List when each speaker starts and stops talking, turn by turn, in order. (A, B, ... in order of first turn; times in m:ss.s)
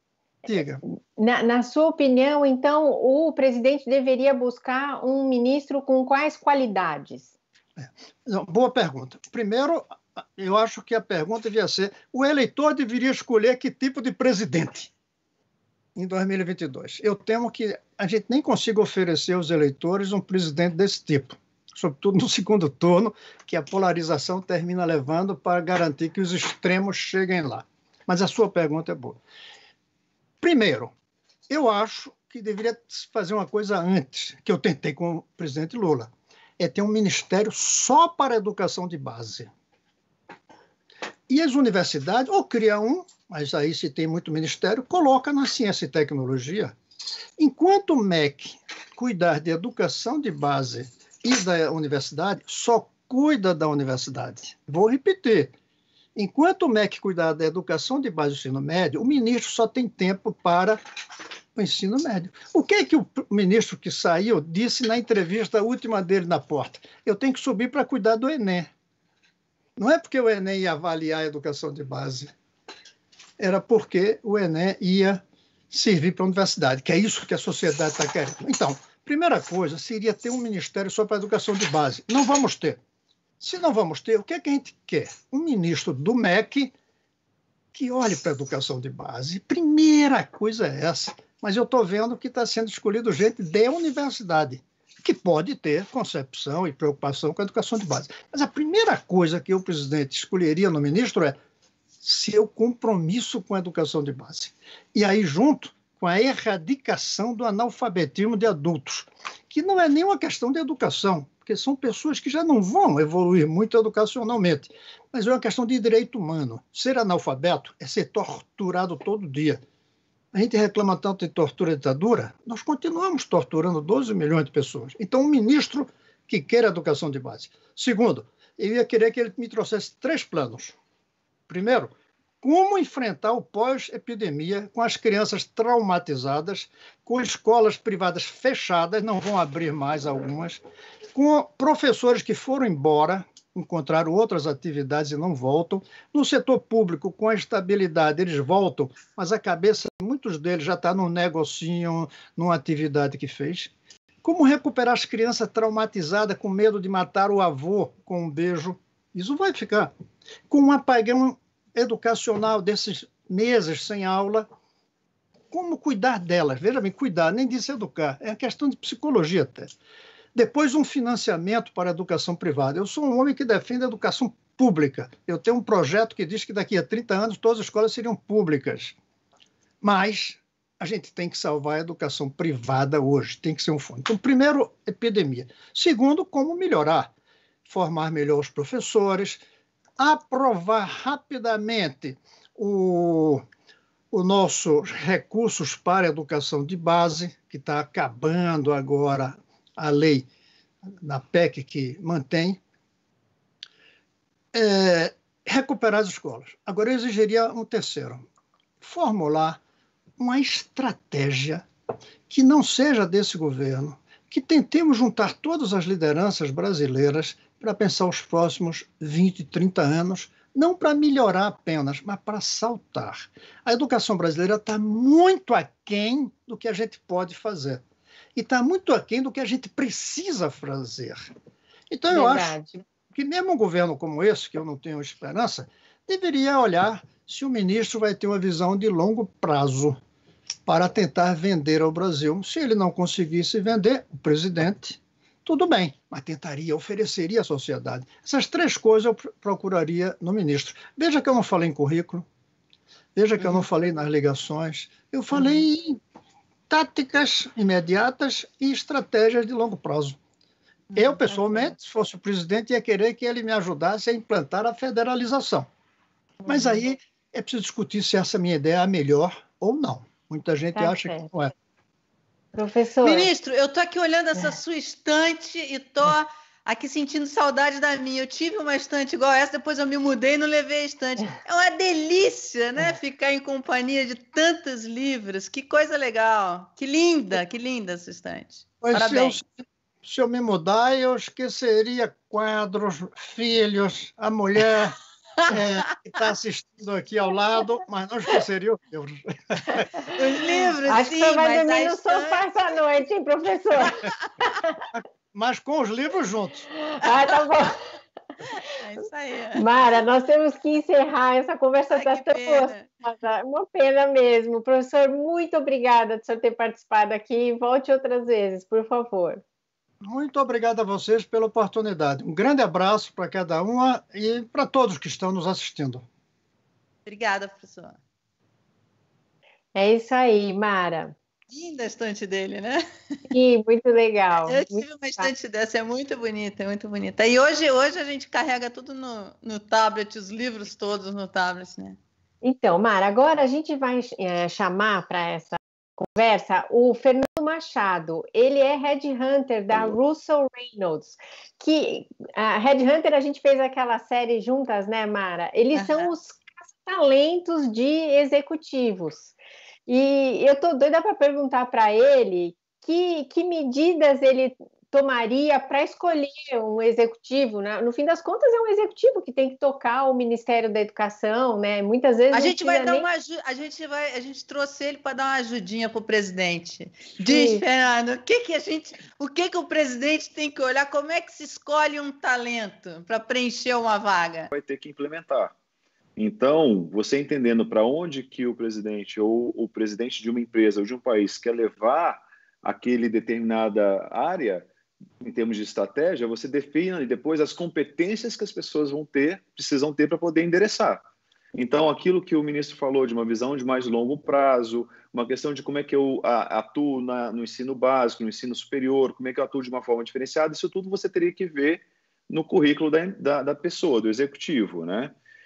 0:00.5-0:00.8 A
0:01.2-0:07.3 B
0:07.8-0:14.9 A
0:15.9-0:29.2 A
0:30.4-0:30.9 A
0:31.5-0:39.5 A
0:41.3-0:46.8 A
0:47.4-0:55.5 A
0:56.1-1:00.8 A
1:01.5-1:08.7 A
1:09.8-1:12.3 A
1:13.4-1:22.8 A
1:23.4-1:26.7 A
1:27.7-1:41.4 A
1:42.0-1:59.6 A
2:00.3-2:10.8 A
2:11.5-2:20.6 A
2:21.1-2:33.7 A
2:34.2-2:39.9 A
2:40.5-2:44.5 A
2:45.5-2:49.7 A
2:50.3-2:59.0 A
2:59.8-3:07.1 A
3:07.6-3:09.4 A
3:10.0-3:13.4 A
3:14.1-3:20.3 A
3:21.0-3:22.6 A
3:24.5-3:28.2 A
3:28.8-3:29.6 A
3:30.2-3:31.6 A
3:32.3-3:47.8 A
3:48.4-3:51.3 A
3:51.9-3:52.6 A
3:52.1-3:52.8 B
3:53.1-4:00.0 A
4:00.7-4:12.2 A
4:13.1-4:16.0 A
4:16.7-4:20.2 A
4:20.9-4:25.7 A
4:21.0-4:21.7 B
4:26.4-4:31.5 A
4:26.5-4:26.8 B
4:30.7-4:31.3 B
4:32.6-4:33.3 B
4:33.0-4:49.4 C
4:48.8-4:49.4 A
4:50.0-4:55.0 A
4:55.5-4:59.8 A
5:00.1-5:02.8 C
5:00.9-5:04.0 B
5:04.9-5:06.7 A
5:06.8-5:07.8 B
5:07.3-5:07.7 C
5:08.6-5:09.7 C
5:09.6-5:19.4 B
5:11.9-5:12.9 C
5:20.0-5:26.0 A
5:27.1-5:28.0 C
5:29.7-5:31.2 B
5:31.5-5:32.8 C
5:33.3-5:35.3 B
5:34.4-5:42.0 C
5:42.4-5:59.4 B
5:55.7-5:56.1 C
5:59.9-6:13.1 B
6:12.3-6:24.5 C
6:17.2-6:17.6 B
6:24.5-6:25.6 D
6:26.2-6:34.7 D
6:35.2-6:41.0 D
6:41.6-6:55.1 D